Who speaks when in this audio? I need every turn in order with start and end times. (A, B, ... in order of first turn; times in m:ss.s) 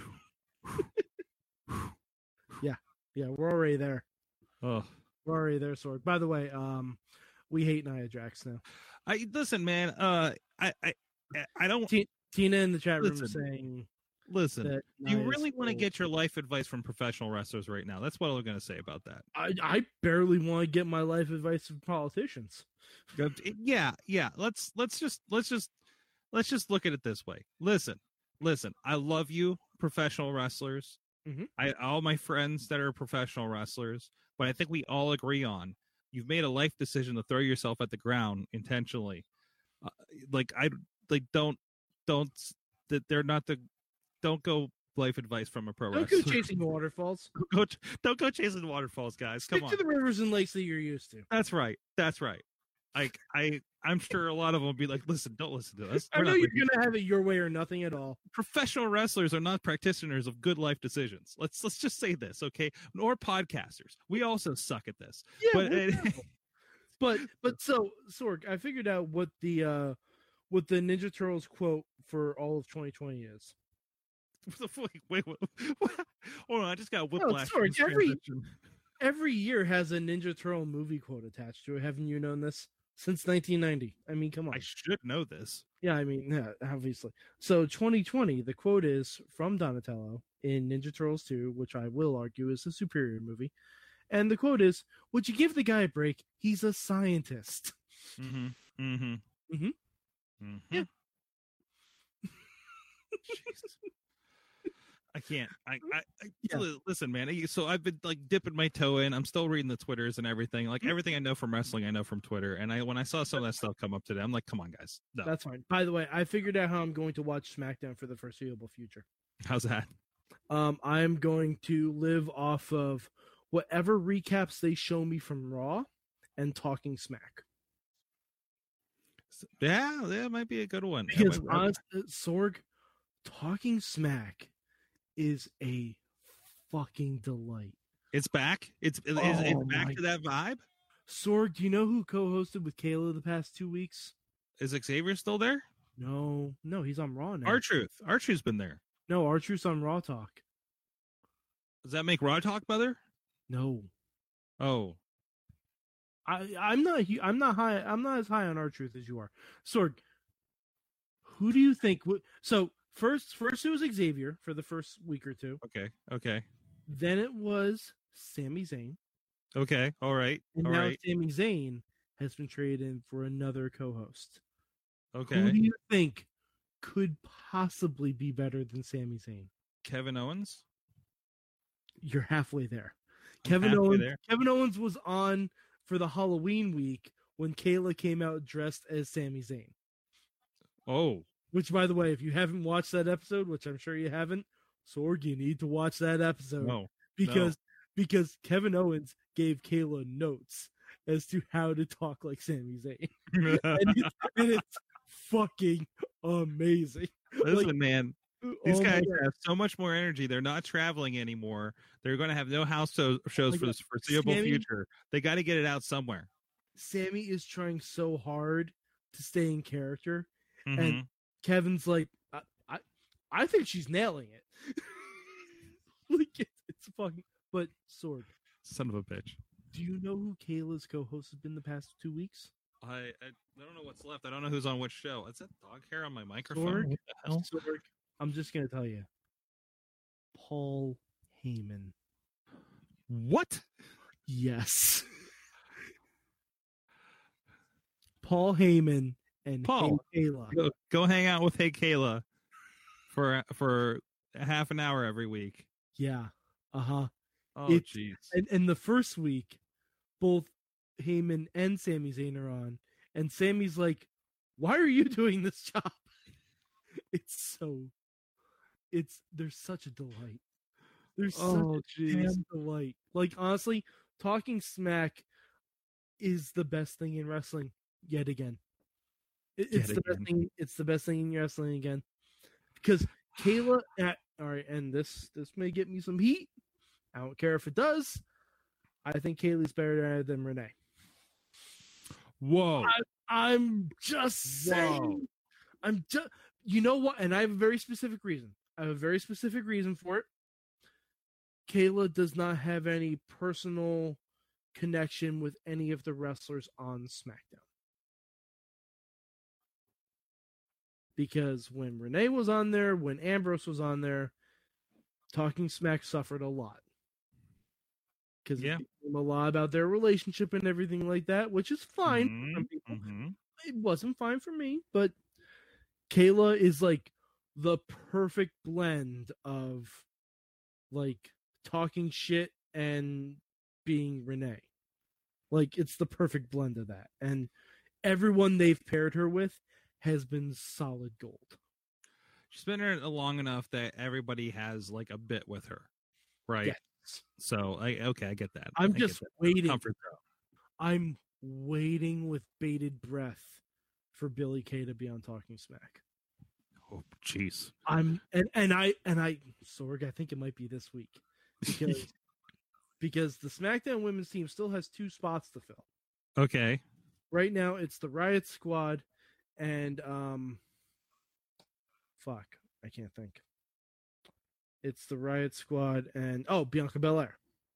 0:01.7-0:01.9 A
0:02.6-0:04.0 B
0:04.6-0:04.9 A
0:05.2-0:08.6 B
0:09.1-0:11.9 A
0:11.9-0:13.9 B
0:13.0-0:13.4 A
0:14.3-0:19.2 A
0:14.6-0:15.8 B
0:19.3-0:22.7 B
0:23.1-0:25.7 A
0:26.3-0:31.0 A
0:31.2-0:31.5 B
0:31.6-0:39.2 A
0:39.8-0:43.6 A
0:44.2-0:46.5 A
0:45.9-0:47.3 B
0:47.3-0:49.8 A
0:49.5-0:51.3 B
0:51.3-0:52.4 A
0:52.9-0:56.6 A
0:56.1-0:58.2 B
0:58.3-1:06.2 A
1:05.4-1:06.2 B
1:07.0-1:10.0 B
1:10.5-1:13.5 B
1:14.4-1:18.5 A
1:17.2-1:18.2 B
1:19.0-1:24.6 B
1:24.5-1:25.6 A
1:25.8-1:33.5 B
1:34.1-1:37.8 B
1:38.2-1:39.2 A
1:39.5-1:39.7 B
1:40.4-1:40.9 A
1:43.3-1:43.7 A
1:45.1-1:55.3 A
1:55.2-1:59.0 B
1:59.4-1:59.9 A
2:00.5-2:07.4 B
2:09.4-2:11.7 A
2:11.1-2:12.6 B
2:13.2-2:14.5 B
2:15.2-2:16.0 B
2:16.7-2:17.8 B
2:18.1-2:20.6 A
2:19.2-2:20.0 B
2:21.1-2:24.1 B
2:24.6-2:25.7 A
2:26.0-2:27.6 B
2:27.4-2:28.8 A
2:29.1-2:30.4 B
2:31.8-2:33.0 A
2:33.5-2:33.9 B
2:34.6-2:35.0 A
2:36.2-2:40.0 B
2:41.2-2:45.6 B
2:45.6-2:46.4 A
2:46.9-2:49.0 B
2:49.5-2:51.0 A
2:50.5-2:54.4 B
2:55.1-2:55.6 A
2:55.3-2:56.3 B
2:56.8-2:59.5 B
2:59.8-3:00.6 A
3:02.0-3:09.7 B
3:03.4-3:04.2 A
3:10.8-3:11.3 A
3:11.5-3:27.7 B
3:16.6-3:17.5 A
3:23.3-3:24.4 A
3:27.4-3:36.3 A
3:28.4-3:29.2 B
3:33.5-3:34.6 B
3:36.8-3:45.5 B
3:40.6-3:41.0 A
3:46.1-3:48.3 B
3:48.6-3:49.4 A
3:49.7-3:52.5 B
3:52.8-3:57.5 A
3:56.5-3:59.1 B
4:00.3-4:01.9 B
4:03.1-4:03.6 A
4:04.3-4:05.1 B
4:08.2-4:10.6 B
4:09.6-4:12.2 A
4:13.1-4:15.6 A
4:16.0-4:17.1 B
4:17.5-4:18.3 A
4:17.7-4:19.6 B
4:20.2-4:26.0 B
4:27.1-4:27.9 B
4:28.9-4:30.4 B
4:31.2-4:35.2 B
4:31.3-4:32.4 A
4:36.2-4:38.6 B
4:39.6-4:42.0 B
4:39.7-4:40.3 A
4:42.8-4:46.5 B
4:47.1-4:48.2 B
4:49.0-4:50.7 B
4:52.4-4:52.9 A
4:52.8-4:55.3 B
4:54.5-4:55.2 A
4:55.8-5:00.3 B
5:01.7-5:04.2 B
5:04.7-5:07.6 B
5:11.2-5:14.3 B
5:15.3-5:16.8 B
5:18.4-5:23.0 B
5:18.6-5:18.8 A
5:22.0-5:23.4 A
5:23.6-5:25.1 B
5:26.1-5:30.0 B
5:30.9-5:34.6 B
5:35.5-5:37.5 B
5:38.0-5:41.6 B
5:42.5-5:45.9 A
5:46.5-5:46.8 A
5:46.6-5:47.2 B
5:47.4-5:50.2 A
5:48.8-5:49.8 B
5:50.8-5:53.6 B
5:54.1-5:56.0 B
5:56.9-5:57.7 A
5:57.8-6:02.1 B
6:01.6-6:02.0 A
6:03.0-6:05.8 B
6:06.4-6:06.8 A
6:07.3-6:09.0 B
6:09.6-6:10.6 B
6:12.2-6:13.4 B
6:14.8-6:17.4 B